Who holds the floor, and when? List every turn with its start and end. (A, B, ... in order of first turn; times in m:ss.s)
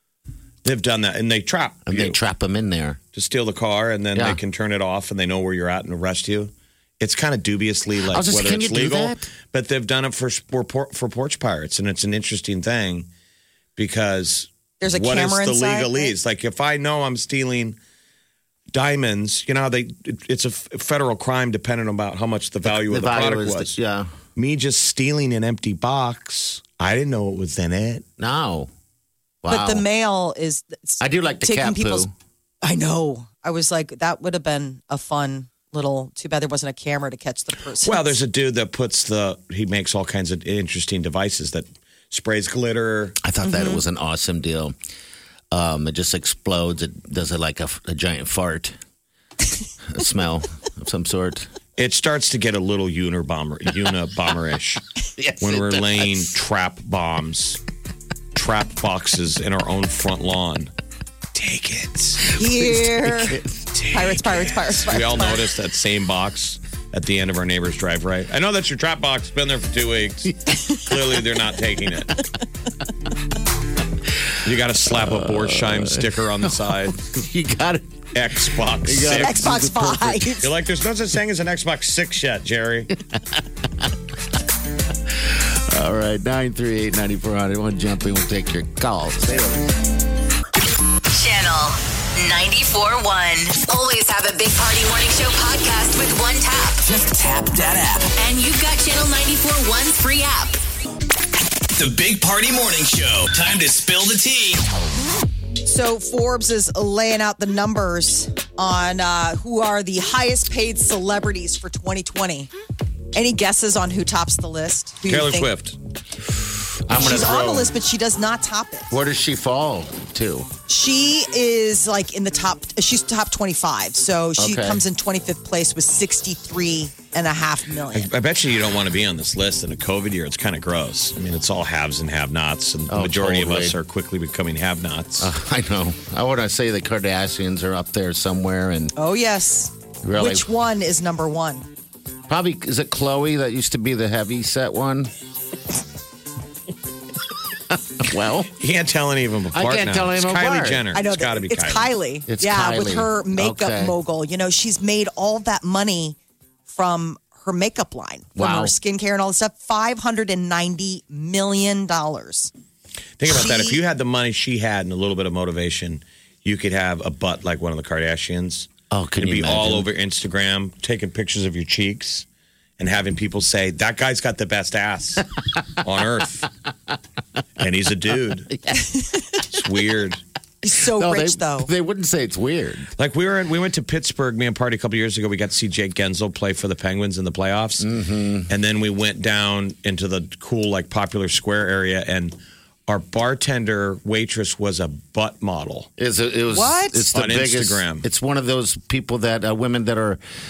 0:00.6-0:02.2 A
0:01.9-0:03.0 B
0:03.1-0:13.1 A
0:04.1-0:04.4 B
0:08.1-0:09.3 B
0:13.8-0:17.8 A
0:14.8-0:16.1 C
0:18.7-0:23.8 A
0:22.6-0:24.1 B
0:24.4-0:28.0 A
0:28.2-0:28.7 B
0:29.4-0:29.8 B
0:29.5-0:32.1 C
0:31.0-0:32.1 B
0:32.6-0:38.2 C
0:37.8-0:43.2 A
0:43.2-0:44.7 B
0:43.4-0:43.8 C
0:45.5-0:48.8 B
0:49.9-0:51.5 B
0:51.8-0:54.8 A
0:55.2-0:56.3 B
0:55.4-0:57.6 A
0:58.3-1:00.7 A
1:01.3-1:02.3 A
1:02.3-1:03.4 C
1:02.4-1:04.0 B
1:03.9-1:05.4 C
1:04.1-1:12.2 A
1:14.4-1:17.0 A
1:14.9-1:20.4 B
1:18.1-1:19.5 A
1:19.1-1:20.5 C
1:20.4-1:22.9 A
1:23.1-1:23.9 B
1:25.1-1:29.7 B
1:31.1-1:36.8 D
1:36.8-1:38.1 E
1:38.2-1:40.6 D
1:41.7-1:44.6 E
1:45.6-1:52.5 C
1:53.1-1:55.5 C
1:55.1-1:55.8 A
1:56.9-1:57.7 B
1:56.9-1:58.9 C
1:58.9-2:00.5 B
2:00.7-2:08.1 C
2:04.4-2:04.8 B
2:07.9-2:15.3 A
2:12.9-2:13.8 B
2:15.2-2:18.9 B
2:19.0-2:21.7 C
2:20.0-2:20.5 B
2:22.3-2:25.1 B
2:27.7-2:28.5 B
2:28.6-2:31.9 A
2:29.5-2:30.8 B
2:30.9-2:36.2 C
2:32.3-2:33.9 B
2:36.7-2:42.5 C
2:38.4-2:38.7 B
2:43.2-2:48.7 A
2:43.3-2:43.8 C
2:48.9-2:49.9 B
2:49.2-2:52.2 A
2:52.8-2:55.2 A
2:55.8-2:56.5 A
2:57.6-2:58.5 A
2:58.8-2:59.2 C
2:59.5-3:00.2 A
3:00.6-3:01.7 C
3:00.9-3:02.9 B
3:03.0-3:07.8 A
3:07.8-3:08.5 B
3:08.5-3:12.4 A
3:12.9-3:15.9 A
3:16.0-3:20.2 B
3:16.5-3:17.0 C
3:17.1-3:18.0 A